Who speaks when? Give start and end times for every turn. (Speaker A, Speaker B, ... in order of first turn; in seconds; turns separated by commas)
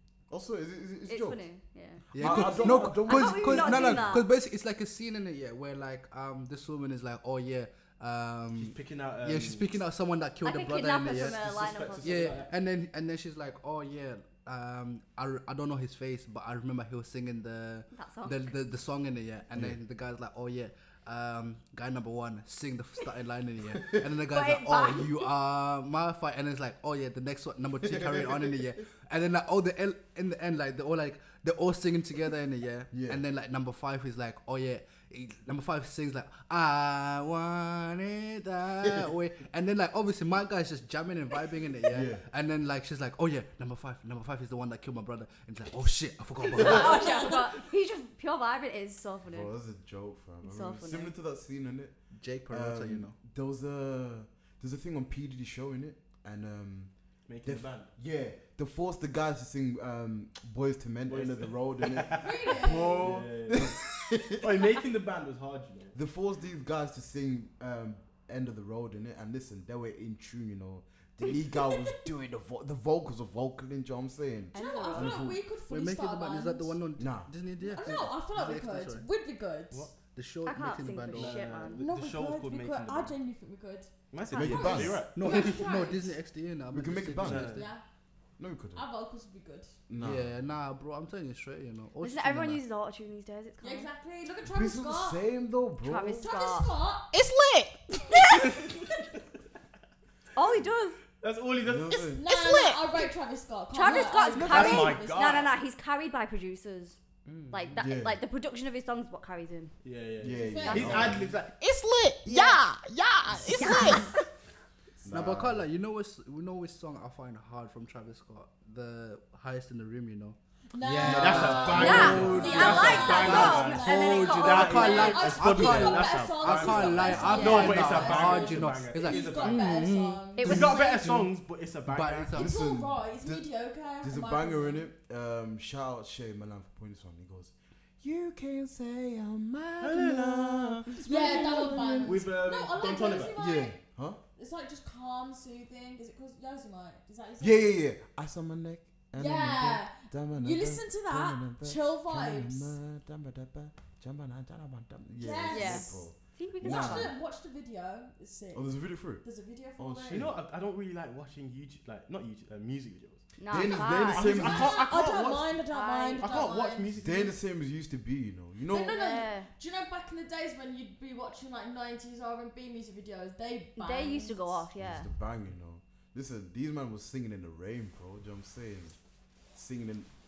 Speaker A: 0.3-1.4, Speaker B: 1.1-4.3, Speaker C: 2.1-47.3, Speaker A: 2.1-4.2, Speaker D: 8.6-9.7, Speaker B: 10.4-12.4, Speaker D: 11.2-12.5, Speaker B: 17.9-18.5, Speaker A: 23.8-24.1, Speaker B: 24.3-25.3, Speaker A: 27.8-28.6, Speaker A: 32.9-33.2, Speaker A: 41.9-42.2, Speaker B: 46.5-49.5, Speaker E: 46.9-47.3, Speaker A: 49.3-52.0, Speaker B: 50.4-51.1, Speaker C: 52.1-53.1, Speaker A: 52.5-56.9, Speaker D: 57.3-57.9, Speaker A: 57.4-64.7, Speaker D: 61.1-63.8, Speaker E: 62.2-63.2, Speaker D: 64.4-66.0, Speaker A: 66.0-75.4, Speaker B: 74.5-75.2, Speaker E: 74.5-76.8, Speaker C: 75.7-79.1, Speaker A: 77.0-77.3, Speaker E: 77.6-79.9, Speaker C: 80.0-81.5, Speaker B: 80.5-81.8, Speaker D: 81.1-83.2, Speaker E: 81.8-86.2, Speaker D: 84.1-85.5, Speaker A: 84.3-85.0, Speaker C: 85.1-87.7, Speaker A: 86.7-87.6, Speaker D: 87.2-87.6, Speaker E: 87.5-87.8, Speaker A: 88.4-88.8, Speaker E: 88.8-89.8, Speaker A: 89.9-90.4, Speaker C: 90.0-92.6, Speaker B: 92.0-93.9, Speaker E: 93.6-95.2, Speaker A: 94.4-96.3, Speaker B: 95.8-96.7, Speaker E: 96.2-97.1, Speaker F: 97.1-98.6, Speaker B: 100.3-101.0, Speaker D: 101.2-102.1, Speaker A: 101.6-102.2, Speaker E: 102.2-105.4, Speaker F: 102.3-103.0, Speaker B: 103.7-107.0, Speaker D: 104.3-105.5, Speaker C: 107.3-107.8, Speaker B: 107.5-109.7, Speaker A: 107.8-108.2, Speaker D: 109.8-111.5, Speaker A: 110.2-111.3, Speaker E: 110.4-111.2, Speaker B: 110.7-111.0, Speaker F: 111.5-114.2, Speaker B: 112.2-112.6, Speaker B: 113.5-114.3, Speaker A: 115.0-115.7, Speaker C: 115.1-131.3, Speaker E: 120.7-130.9, Speaker A: 121.0-122.6, Speaker D: 121.0-129.9, Speaker B: 121.8-125.3, Speaker B: 127.2-127.9, Speaker B: 130.4-130.8, Speaker D: 130.4-132.3, Speaker C: 131.9-132.5, Speaker A: 132.3-133.5, Speaker E: 132.3-134.8, Speaker A: 134.0-142.3, Speaker D: 139.8-143.4, Speaker E: 140.9-143.8, Speaker A: 143.3-144.2, Speaker E: 144.4-147.8, Speaker A: 147.4-157.2, Speaker E: 149.2-152.8, Speaker E: 155.2-156.1, Speaker B: 155.5-157.1, Speaker E: 156.6-158.7, Speaker A: 158.5-159.2, Speaker E: 159.2-160.3, Speaker A: 159.8-160.4, Speaker D: 160.1-165.5, Speaker B: 163.4-164.6, Speaker A: 163.5-165.0, Speaker E: 164.3-166.9, Speaker B: 165.7-166.3, Speaker D: 166.2-167.4, Speaker A: 167.0-169.0, Speaker E: 168.7-174.7, Speaker B: 168.9-169.5, Speaker B: 173.8-175.1, Speaker A: 174.8-179.0, Speaker A: 179.5-180.1